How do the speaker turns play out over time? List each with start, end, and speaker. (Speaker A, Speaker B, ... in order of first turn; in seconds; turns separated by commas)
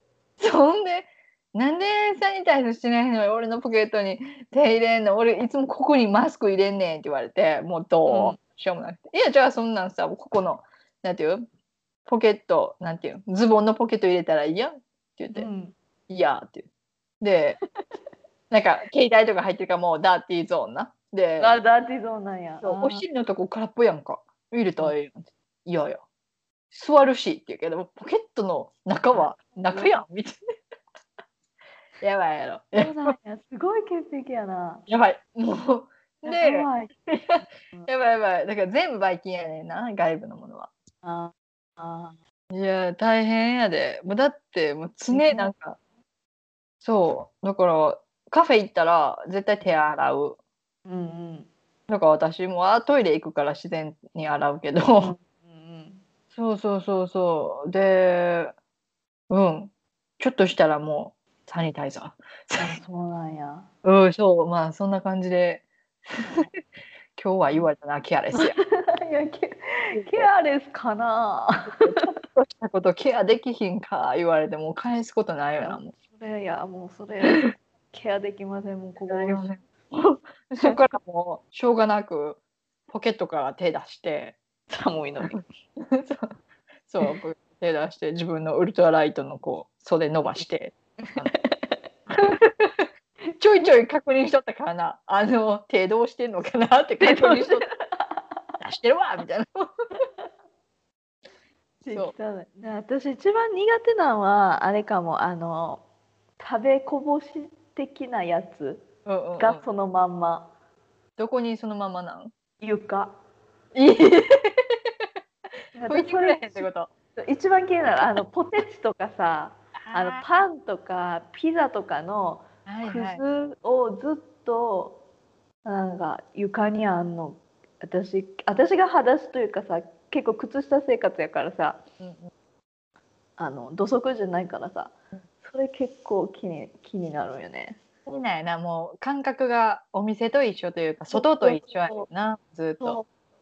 Speaker A: 0.4-11.4, Speaker B: 8.1-8.4, Speaker A: 12.1-15.5, Speaker B: 15.3-15.8, Speaker A: 16.1-16.7, Speaker A: 17.2-17.6, Speaker A: 18.5-21.6, Speaker B: 21.4-23.0, Speaker A: 22.6-26.0, Speaker A: 26.7-30.4, Speaker B: 29.1-30.0, Speaker A: 32.0-33.2, Speaker B: 32.8-34.9, Speaker A: 34.9-40.7, Speaker B: 36.2-36.9, Speaker B: 41.0-42.2, Speaker A: 42.5-45.8, Speaker B: 45.1-45.5, Speaker A: 46.8-50.4, Speaker B: 50.9-51.5, Speaker A: 51.9-55.1, Speaker B: 55.0-56.0, Speaker A: 56.3-58.5, Speaker A: 59.3-62.8, Speaker B: 62.6-63.7, Speaker A: 63.8-66.5, Speaker B: 66.2-66.5, Speaker A: 67.2-68.6, Speaker B: 68.3-72.0, Speaker A: 70.0-70.3, Speaker A: 71.8-75.9, Speaker B: 75.6-79.4, Speaker A: 77.2-77.5, Speaker A: 79.1-82.4, Speaker A: 82.9-84.4, Speaker B: 84.7-85.3, Speaker A: 85.2-86.3, Speaker A: 86.9-91.3, Speaker B: 91.0-91.7, Speaker A: 92.1-92.9, Speaker A: 93.4-97.6, Speaker B: 97.0-97.6, Speaker A: 98.6-99.7, Speaker B: 101.8-105.8, Speaker B: 106.4-110.5, Speaker A: 109.1-109.6, Speaker A: 111.2-112.3, Speaker B: 112.6-113.2, Speaker A: 113.8-114.6, Speaker B: 115.8-125.0, Speaker A: 115.9-116.9, Speaker A: 119.8-120.2, Speaker A: 122.7-123.2, Speaker B: 125.7-131.8, Speaker A: 132.0-132.3, Speaker B: 133.4-137.8, Speaker A: 138.1-143.0, Speaker B: 141.1-142.1, Speaker B: 142.8-143.1